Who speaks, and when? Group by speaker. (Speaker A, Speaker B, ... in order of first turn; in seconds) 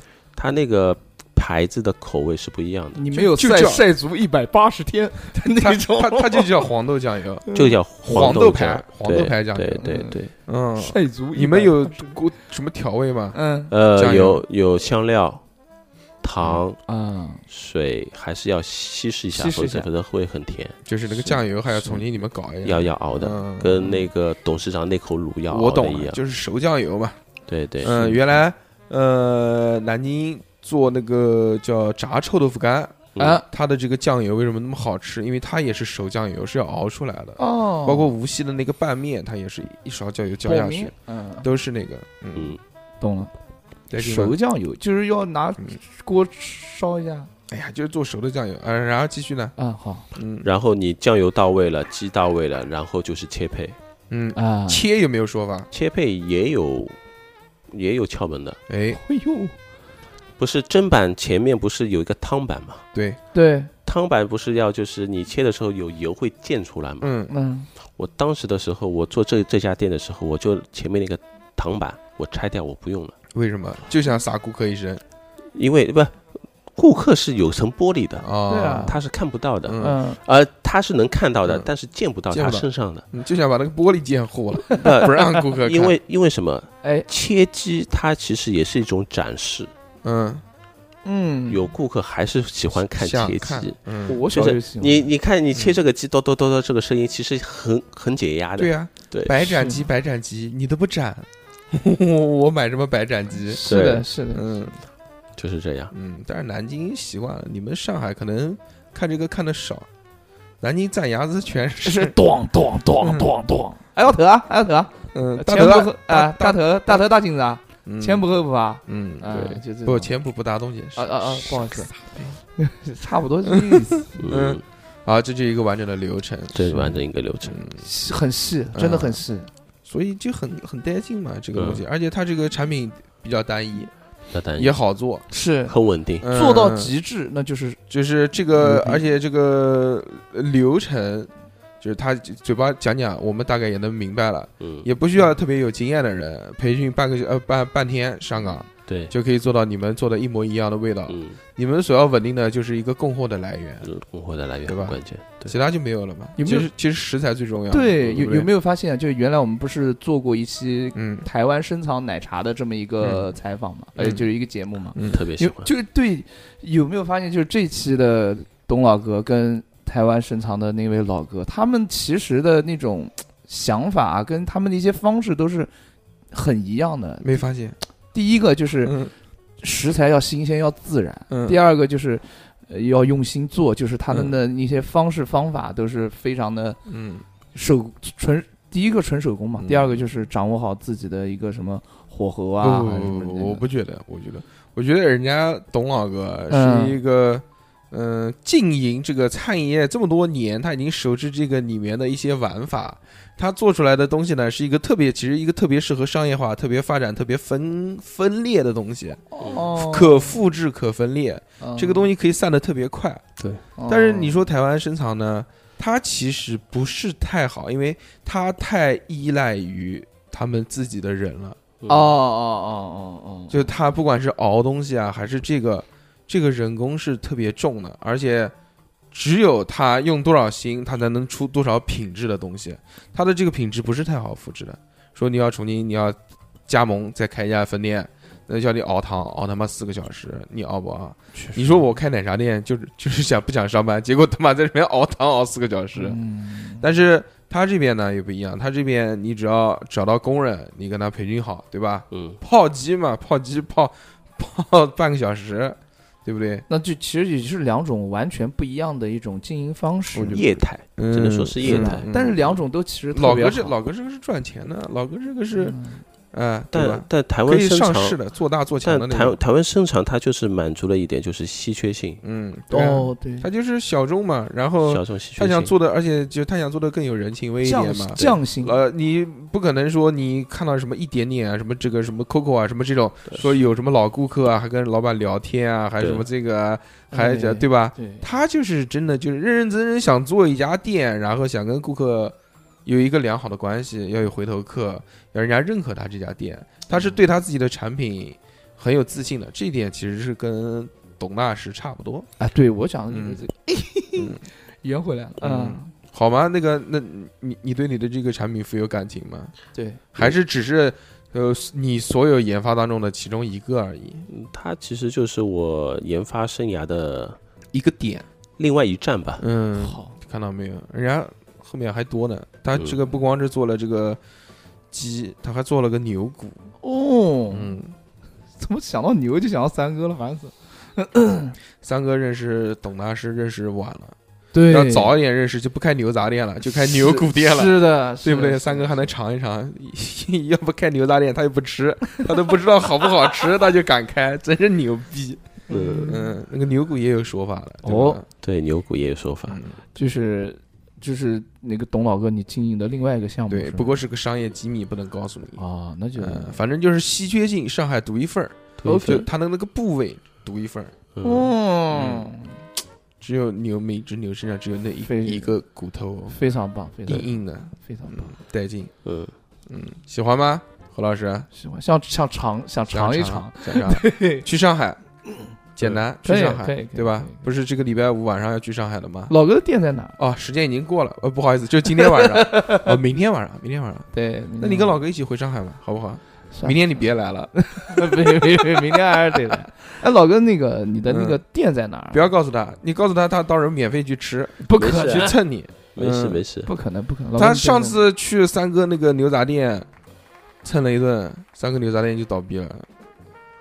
Speaker A: 0.3-3.0, 7.5-10.3, 13.7-15.4, 16.2-16.8, 17.5-21.4, 22.6-26.2, 27.5-28.2, 33.1-33.4, 42.3-42.6, 50.4-53.8, 55.7-57.0, 57.7-58.6, 60.4-62.9, 63.8-67.1, 68.0-73.2, 75.5-78.3, 78.8-83.0, 84.8-89.7, 91.5-99.3, 103.7-104.0, 105.3-105.9, 119.3-119.6, 124.2-124.6, 126.5-127.6, 131.5-131.8, 134.3-134.8, 135.7-136.3, 144.6-144.8, 148.9-149.1, 151.1-151.4, 153.8-155.5, 165.0-165.7, 221.8-222.1, 252.1-252.4, 260.3-262.1, 266.7-268.2, 268.8-272.2, 274.9-275.7, 286.0-286.2, 314.3-317.4, 318.6-319.4, 322.7-323.0, 345.7-346.1, 348.4-349.6, 358.8-359.2, 361.1-361.5, 369.0-369.3, 394.8-395.3, 395.9-396.7
Speaker B: 2.9-6.7, 9.8-10.2, 10.8-12.2, 13.3-13.7, 16.9-17.4, 19.3-19.9, 21.7-22.0, 33.2-33.4, 37.4-38.1, 40.4-41.5, 43.0-43.3, 43.9-47.3, 49.6-50.1, 54.3-54.8, 58.9-59.5, 63.3-63.7, 67.3-67.7, 78.5-79.0, 79.8-80.2, 91.0-91.7, 94.0-95.1, 99.4-99.8, 103.4-104.4, 111.8-120.1, 121.0-121.9, 122.5-124.1, 127.8-129.5, 135.3-137.8, 138.6-139.0, 156.4-156.7, 157.7-175.7, 176.3-177.4, 178.1-178.9, 179.6-186.8, 187.5-193.6, 196.5-196.9, 209.3-210.4, 211.6-212.1, 213.8-214.4, 221.9-223.7, 241.3-241.8, 245.9-246.8, 256.7-260.4, 261.6-263.8, 265.6-266.0, 272.7-273.5, 277.6-278.7, 287.1-288.2, 302.4-305.9, 309.7-310.0, 319.8-320.1, 326.8-327.8, 328.6-331.6, 334.5-335.1, 336.7-339.1, 345.7-346.3, 347.8-348.2, 349.9-354.0, 355.6-356.6, 358.8-359.3, 361.2-362.6, 365.0-365.5, 366.3-368.3, 371.5-374.4, 376.2-377.4, 379.3-380.2, 381.9-383.0, 384.1-385.0, 386.5-387.0, 387.5-392.2, 394.6-395.4, 396.6-398.0
Speaker C: 3.1-3.8, 5.3-7.5, 8.0-9.9, 10.5-13.4, 13.9-14.4, 20.9-24.0, 25.5-27.2, 27.8-42.6, 43.9-44.4, 47.5-49.5, 50.1-50.5, 54.1-55.7, 58.7-59.0, 62.9-63.2, 67.0-67.3, 73.3-75.0, 78.2-79.0, 79.7-80.0, 82.3-85.9, 90.0-90.4, 92.9-94.2, 98.6-103.6, 104.3-104.8, 105.9-109.8, 110.6-112.1, 113.0-113.3, 115.1-117.0, 117.8-118.2, 118.9-122.4, 123.5-126.9, 127.5-127.8, 128.7-129.2, 129.9-133.9, 134.6-135.3, 136.2-136.9, 137.9-141.3, 141.8-153.9, 154.7-158.5, 160.9-161.3, 164.9-165.2, 177.2-177.8, 178.8-179.1, 181.3-181.6, 186.9-187.2, 189.6-190.0, 192.6-213.2, 213.9-221.6, 223.5-228.5, 229.1-236.2, 236.7-246.2, 246.8-256.6, 260.1-262.5, 263.1-265.8, 266.3-269.4, 272.2-292.3, 292.9-302.3, 303.1-303.4, 305.4-309.6, 310.1-314.3, 317.7-318.2, 319.4-324.2, 324.9-326.7, 327.5-327.9, 331.8-334.1, 334.7-348.2, 349.5-349.8, 353.5-355.6, 356.2-360.9, 361.9-362.3, 363.2-366.4, 367.1-368.9, 369.7-371.5, 372.9-375.0, 375.8-379.3, 380.2-389.5, 391.1-391.4, 392.1-396.4, 397.4-399.9, 400.6-402.9